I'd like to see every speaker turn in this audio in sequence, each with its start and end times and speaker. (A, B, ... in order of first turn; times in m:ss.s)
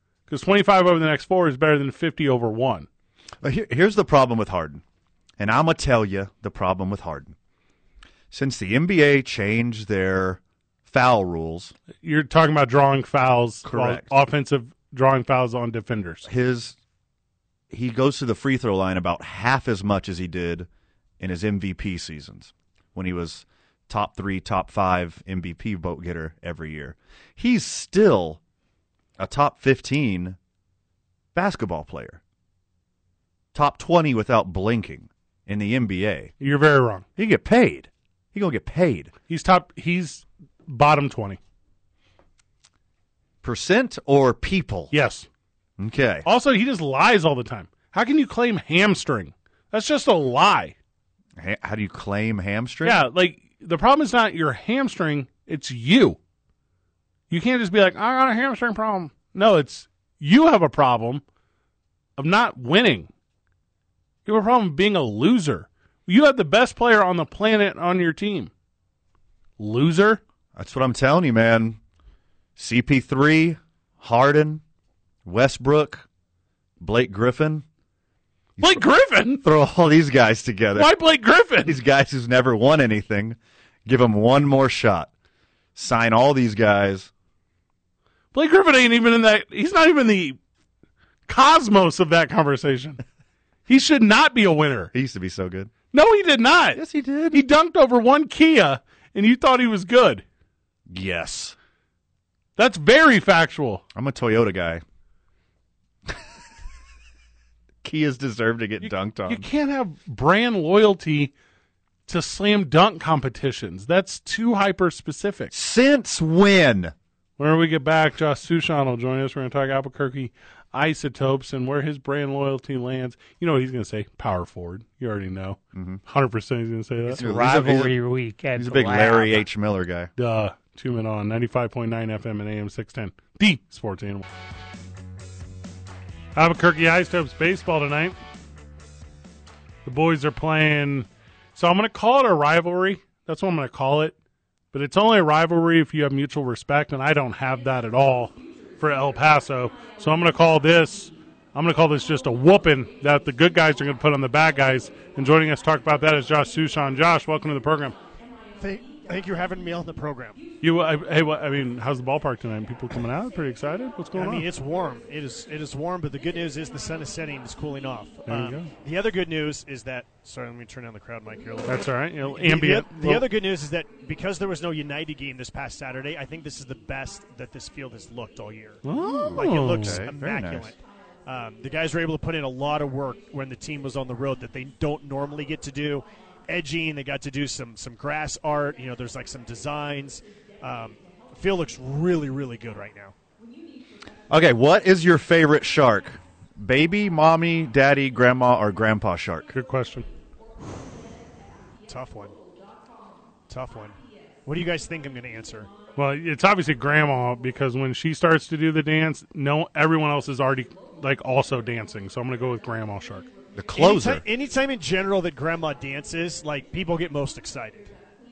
0:00.3-0:02.9 A
0:03.4-0:04.8 B
0:05.4-0:07.4 B
0:08.3-0:11.7 B
0:12.0-0:16.3 A
0:13.6-0:14.1 B
0:16.2-0:16.8 B
0:17.7-0:20.7 B
0:21.2-0:28.4 B
0:29.2-0:30.4 B
0:31.3-0:32.2 B
0:33.5-0:36.3 B
0:36.4-0:37.0 A
0:37.2-0:39.1 B
0:39.3-0:41.4 A
0:43.4-0:44.9 B
0:44.9-0:45.3 A
0:45.8-0:46.2 B
0:46.2-0:50.8 A
0:51.4-0:53.0 B
0:52.8-0:56.2 A
0:57.3-1:01.2 A
1:02.2-1:03.1 A
1:04.2-1:08.5 A
1:09.6-1:10.2 A
1:10.5-1:11.8 B
1:12.6-1:14.6 B
1:15.2-1:16.0 B
1:16.8-1:17.6 B
1:18.6-1:18.8 B
1:18.6-1:19.4 A
1:19.4-1:20.9 B
1:20.8-1:21.8 A
1:21.6-1:25.1 B
1:25.7-1:27.1 B
1:28.3-1:30.4 A
1:31.3-1:33.0 A
1:33.7-1:34.9 A
1:34.9-1:35.7 B
1:35.9-1:40.2 A
1:36.7-1:37.4 B
1:40.9-1:41.6 B
1:42.6-1:43.8 A
1:43.9-1:44.8 B
1:47.8-1:49.5 B
1:48.8-1:51.3 A
1:52.1-1:55.5 A
1:55.5-1:56.9 B
1:57.4-2:07.2 A
2:05.7-2:06.0 B
2:07.1-2:07.9 B
2:07.1-2:09.4 C
2:08.6-2:10.1 B
2:10.2-2:14.2 A
2:16.3-2:18.2 A
2:19.8-2:24.1 A
2:24.7-2:38.0 A
2:38.6-2:40.4 D
2:40.6-2:44.5 A
2:44.1-3:13.1 D
2:48.2-2:48.7 A
2:51.6-2:53.3 A
2:58.8-3:00.1 A
2:58.9-3:00.8 B
3:14.3-3:19.5 B
3:19.5-3:20.1 A
3:21.8-3:22.4 D
3:23.5-3:25.8 D
3:25.9-3:33.3 A
3:33.5-3:34.3 B
3:33.8-3:37.9 D